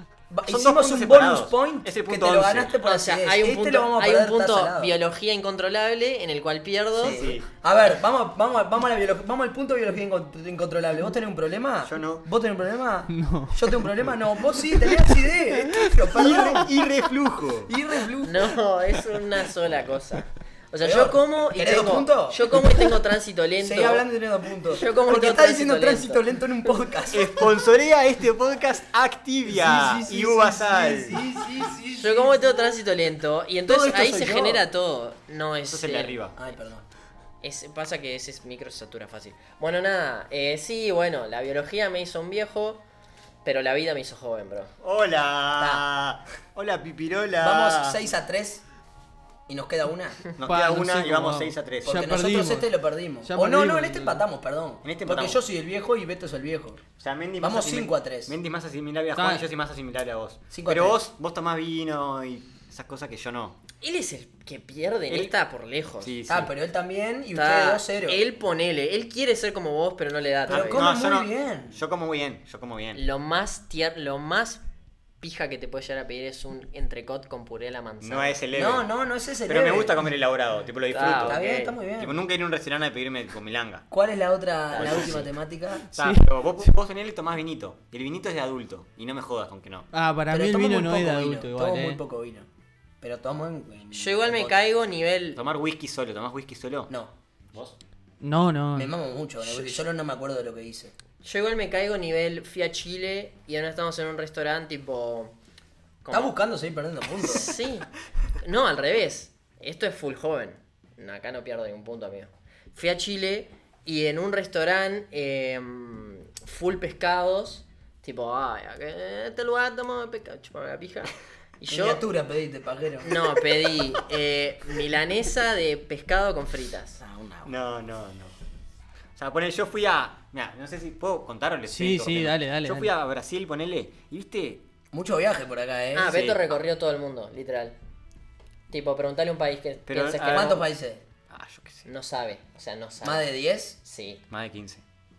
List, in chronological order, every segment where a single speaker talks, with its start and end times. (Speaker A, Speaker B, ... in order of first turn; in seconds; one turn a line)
Speaker A: 0.3-5.0
Speaker B: 0.5-2.7
Speaker C: 2.8-7.2
Speaker A: 7.0-16.8
Speaker B: 7.0-7.5
Speaker B: 11.8-12.2
Speaker D: 13.1-13.7
Speaker B: 16.1-17.7
Speaker A: 17.7-18.6
Speaker C: 18.2-24.1
Speaker A: 20.8-23.0
Speaker A: 23.6-27.5
Speaker C: 24.7-26.2
Speaker B: 27.1-31.2
Speaker A: 29.5-32.8
Speaker C: 31.9-36.2
Speaker A: 33.7-34.6
Speaker B: 35.6-36.4
Speaker A: 36.4-36.9
Speaker C: 37.4-42.8
Speaker C: 43.5-44.7
Speaker B: 44.8-48.0
Speaker A: 45.6-45.9
Speaker A: 47.4-48.6
Speaker A: 49.5-50.2
Speaker B: 50.4-52.0
Speaker D: 50.5-52.7
Speaker A: 51.8-56.8
Speaker D: 53.2-54.2
Speaker B: 54.8-55.4
Speaker B: 57.0-63.6
Speaker A: 57.4-58.4
Speaker D: 59.2-59.4
Speaker A: 60.5-61.0
Speaker C: 63.8-66.1
Speaker B: 66.0-66.5
Speaker A: 66.3-68.2
Speaker C: 67.3-70.9
Speaker A: 70.5-71.8
Speaker B: 70.5-73.0
Speaker C: 73.0-74.6
Speaker C: 75.2-78.4
Speaker B: 78.0-78.9
Speaker A: 78.5-80.1
Speaker B: 79.5-81.4
Speaker C: 80.9-81.8
Speaker A: 81.2-82.2
Speaker B: 82.0-83.9
Speaker A: 83.9-85.9
Speaker B: 84.7-85.3
Speaker B: 85.9-89.9
Speaker D: 85.9-86.3
Speaker D: 89.9-92.0
Speaker A: 90.3-92.5
Speaker A: 93.0-94.6
Speaker C: 93.9-95.4
Speaker B: 95.4-96.9
Speaker D: 98.2-98.9
Speaker A: 98.7-100.9
Speaker C: 101.2-105.3
Speaker C: 106.0-106.3
Speaker A: 106.1-107.5
Speaker C: 107.2-107.9
Speaker C: 108.4-122.0
Speaker A: 121.7-123.2
Speaker C: 123.0-127.0
Speaker A: 127.0-127.5
Speaker B: 127.5-128.3
Speaker B: 129.2-134.6
Speaker D: 131.7-132.9
Speaker A: 134.9-136.2
Speaker C: 135.9-137.8
Speaker B: 136.1-136.5
Speaker C: 138.7-140.6
Speaker B: 139.9-140.6
Speaker A: 140.3-141.0
Speaker B: 141.3-141.9
Speaker C: 141.8-143.3
Speaker A: 143.0-143.8
Speaker C: 143.8-144.2
Speaker B: 144.3-144.8